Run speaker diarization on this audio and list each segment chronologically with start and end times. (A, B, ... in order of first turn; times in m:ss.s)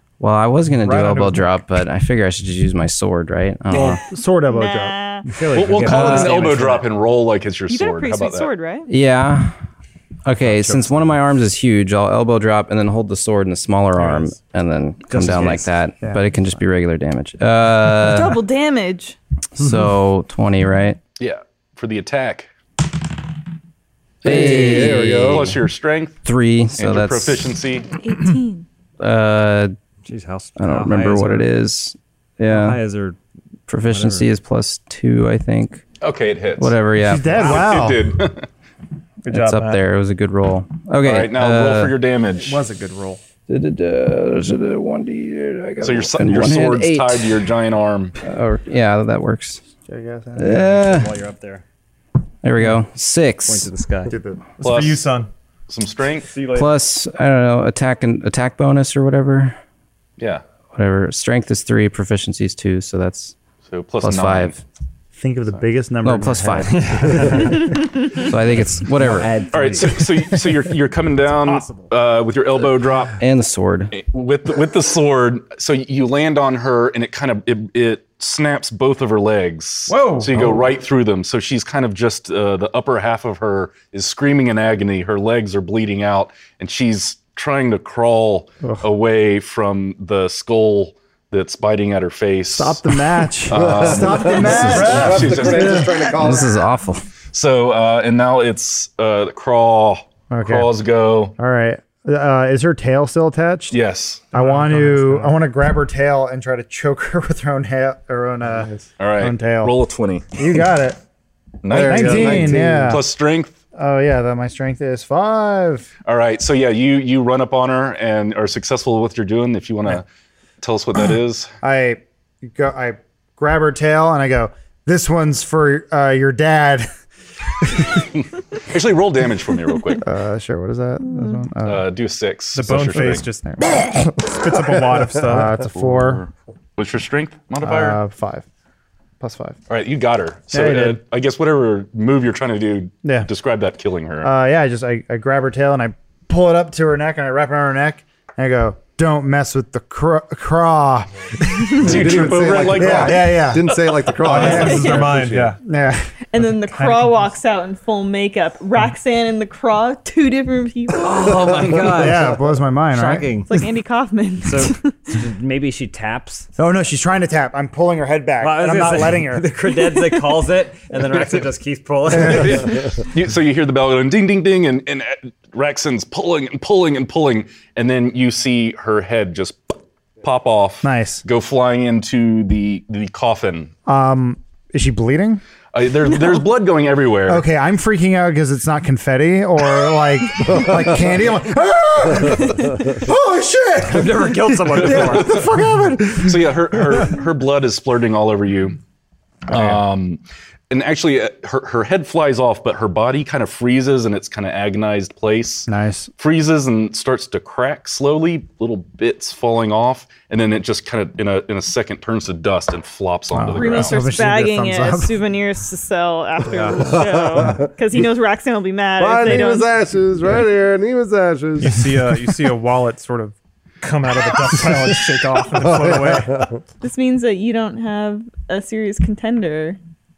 0:00.2-0:04.0 A
0:00.8-0:01.5 B
0:03.7-0:05.0 C
0:04.5-0:05.3 D
0:05.4-0:06.8 E
0:05.5-0:08.5 F
0:05.8-0:06.3 C
0:07.7-0:08.9 D
0:08.9-0:09.5 A
0:10.2-0:18.4 A
0:15.1-0:15.7 E
0:18.0-0:19.2 D
0:19.6-0:21.0 A
0:21.2-0:22.5 F
0:24.2-0:25.4 G
0:24.2-0:25.6 A
0:24.3-0:26.2 F
0:26.2-0:27.5 A
0:26.8-0:27.9 F
0:27.9-0:28.6 D
0:29.0-0:29.8 A
0:30.0-0:31.5 E
0:30.6-0:32.8 A
0:32.5-0:33.2 E
0:33.7-0:35.8 A
0:33.9-0:34.3 E
0:36.0-0:36.8 F
0:36.6-0:37.5 A
0:37.0-0:38.1 C
0:37.3-0:38.5 F
0:39.2-0:39.8 B
0:39.3-0:42.0 A
0:41.0-0:42.6 F
0:42.3-0:43.2 B
0:43.5-0:47.4 A
0:45.8-0:48.2 F
0:48.2-0:49.6 A
0:49.9-0:50.6 C
0:50.4-0:51.1 A
0:50.4-0:51.6 E
0:52.4-0:53.7 A
0:53.4-0:54.2 E
0:54.1-0:54.4 C
0:54.6-0:55.3 B
0:54.6-0:55.1 F
0:55.7-0:56.3 F
0:56.2-0:56.7 B
0:56.5-0:59.6 A
1:00.7-1:03.3 A
1:03.7-1:04.6 F
1:04.0-1:04.6 A
1:05.1-1:07.4 C
1:06.0-1:09.4 A
1:06.7-1:07.7 E
1:07.6-1:08.2 D
1:09.0-1:10.4 E
1:09.5-1:13.2 F
1:11.4-1:11.9 B
1:13.2-1:13.9 A
1:13.9-1:32.8 F
1:19.9-1:20.7 B
1:32.6-1:35.8 C
1:33.5-1:35.9 F
1:33.5-1:36.6 G
1:34.4-1:37.0 A
1:34.7-1:35.4 B
1:37.3-1:41.3 F
1:40.3-1:40.7 C
1:41.4-1:43.8 C
1:43.7-1:44.2 F
1:44.3-1:45.3 B
1:44.3-1:49.8 C
1:48.6-1:48.8 G
1:49.0-1:50.2 F
1:50.3-1:51.0 C
1:51.6-1:53.5 F
1:51.7-1:53.0 G
1:51.7-1:53.1 C
1:53.7-1:55.9 C
1:56.0-2:00.0 F
2:00.6-2:01.5 F
2:01.6-2:06.9 C
2:07.6-2:08.0 C
2:08.1-2:10.1 F
2:10.0-2:11.8 C
2:11.6-2:13.2 F
2:12.5-2:15.6 B
2:12.7-2:14.1 C
2:15.2-2:16.2 C
2:15.7-2:18.0 F
2:17.6-2:18.4 C
2:19.2-2:19.6 C
2:19.7-2:24.3 F
2:20.5-2:21.0 C
2:23.0-2:23.3 C
2:24.2-2:33.7 C
2:31.7-2:34.1 F
2:31.8-2:35.5 G
2:34.2-2:35.6 B
2:34.3-2:35.2 D
2:34.4-2:35.0 C
2:35.6-2:36.1 C
2:36.3-2:41.4 D
2:36.4-2:37.3 B
2:41.0-2:43.5 E
2:41.8-2:43.6 C
2:43.5-2:45.2 D
2:44.4-2:46.5 E
2:46.6-2:49.5 C
2:48.4-2:52.8 E
2:52.2-3:03.7 F
3:00.8-3:01.2 C
3:03.8-3:05.4 C
3:05.7-3:07.4 F
3:07.3-3:14.0 C
3:10.5-3:10.8 G
3:13.8-3:15.4 E
3:14.6-3:16.4 C
3:14.7-3:15.5 F
3:16.1-3:18.8 F
3:19.5-3:19.8 C
3:19.5-3:34.0 F
3:25.7-3:26.1 C
3:33.3-3:35.2 C
3:33.5-3:39.7 D
3:36.7-3:37.7 G
3:39.0-3:42.2 G
3:41.6-3:46.5 B
3:45.6-3:46.6 G
3:46.8-3:49.8 D